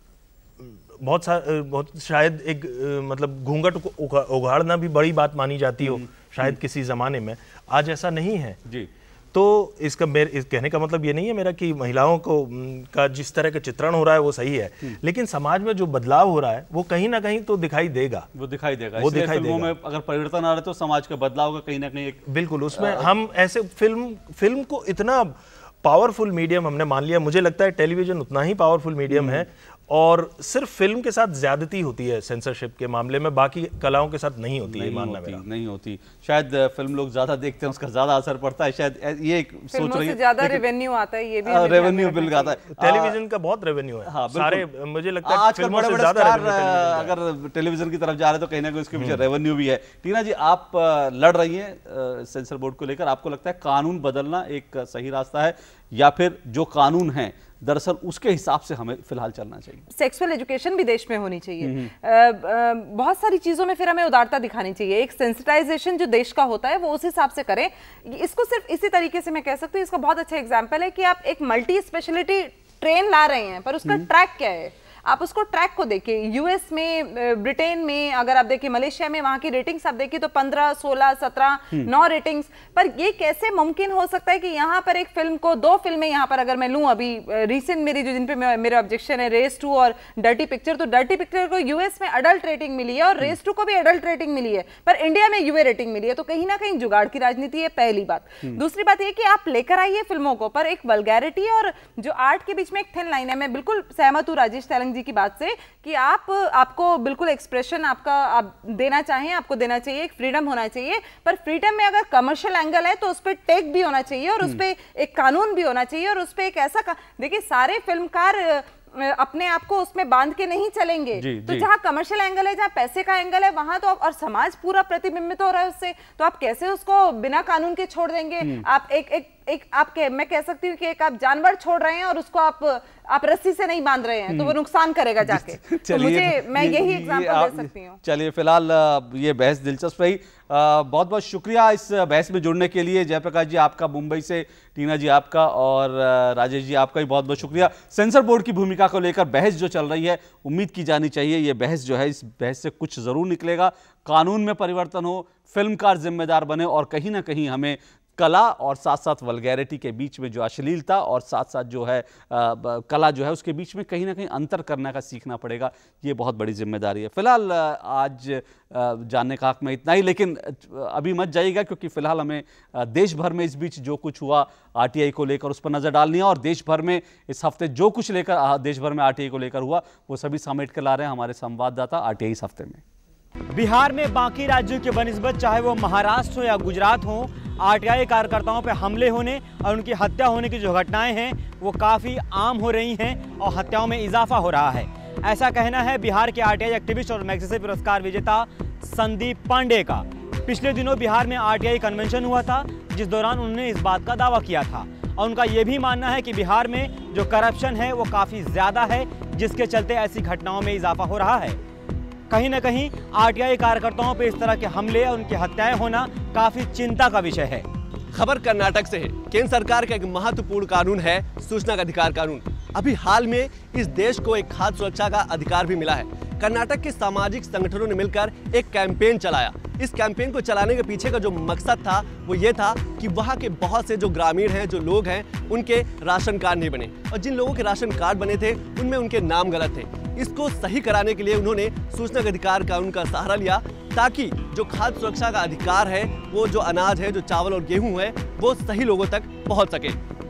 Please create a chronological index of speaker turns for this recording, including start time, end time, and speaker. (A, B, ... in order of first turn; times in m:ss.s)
0:00.6-0:08.6 A
0:05.8-0:06.6 B
0:09.3-0:18.3 A
0:18.4-0:22.2 B
0:19.0-0:19.7 A
0:22.3-0:35.4 A
0:22.7-0:23.1 B
0:29.1-0:29.4 B
0:34.6-0:40.6 B
0:39.7-0:42.6 C
0:41.4-0:43.2 B
0:42.7-0:47.2 A
0:44.0-0:44.7 B
0:45.2-0:59.8 B
0:48.9-0:49.2 A
0:59.9-2:18.0 C
1:01.6-1:01.9 B
2:01.2-2:01.7 B
2:14.3-2:14.6 B
2:15.2-3:02.8 B
3:03.5-3:31.6 D
3:32.3-3:37.7 D
3:38.1-4:10.0 E